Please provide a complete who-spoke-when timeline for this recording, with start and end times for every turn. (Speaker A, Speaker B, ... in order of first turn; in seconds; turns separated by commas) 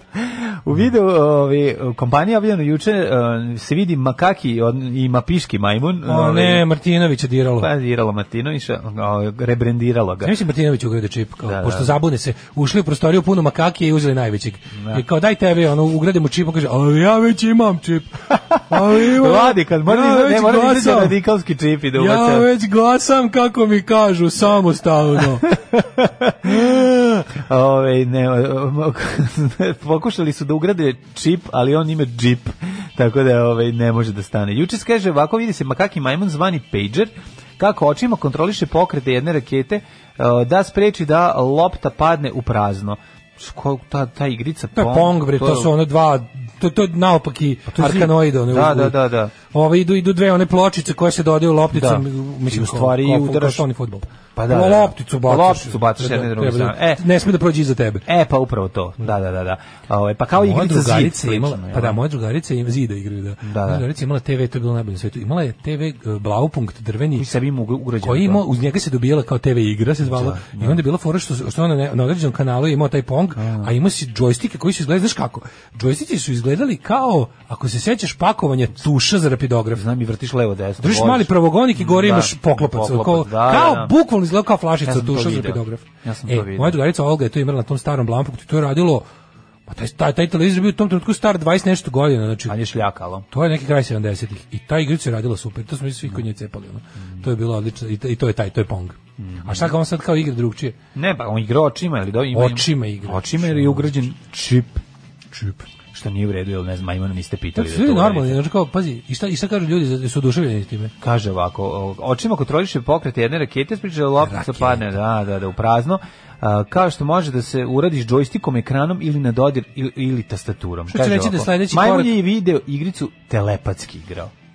Speaker A: 0.2-6.7, Speaker B: 6.1-7.7, Speaker A: 7.6-10.3, Speaker B: 10.2-21.2, Speaker A: 11.4-12.0, Speaker A: 14.8-15.0, Speaker A: 18.7-22.5, Speaker B: 21.9-25.6, Speaker A: 25.5-26.7, Speaker B: 26.4-27.3, Speaker A: 27.3-45.7, Speaker B: 44.8-49.0, Speaker A: 47.7-49.3, Speaker B: 49.5-58.1, Speaker A: 51.7-53.7, Speaker A: 54.4-57.0, Speaker A: 58.1-62.0, Speaker B: 60.4-67.3, Speaker A: 63.4-63.9, Speaker A: 67.2-68.4, Speaker B: 68.0-79.8, Speaker A: 70.0-70.8, Speaker A: 73.4-73.7, Speaker A: 79.7-83.9, Speaker B: 80.8-89.0, Speaker A: 84.8-86.8, Speaker B: 89.7-92.6, Speaker A: 92.5-93.3, Speaker B: 93.3-100.8, Speaker A: 99.2-99.8, Speaker A: 101.0-104.8, Speaker B: 102.3-103.9, Speaker B: 105.3-105.6, Speaker A: 105.9-108.4, Speaker B: 107.6-110.9, Speaker A: 111.0-124.3, Speaker B: 114.2-114.9, Speaker B: 120.9-122.2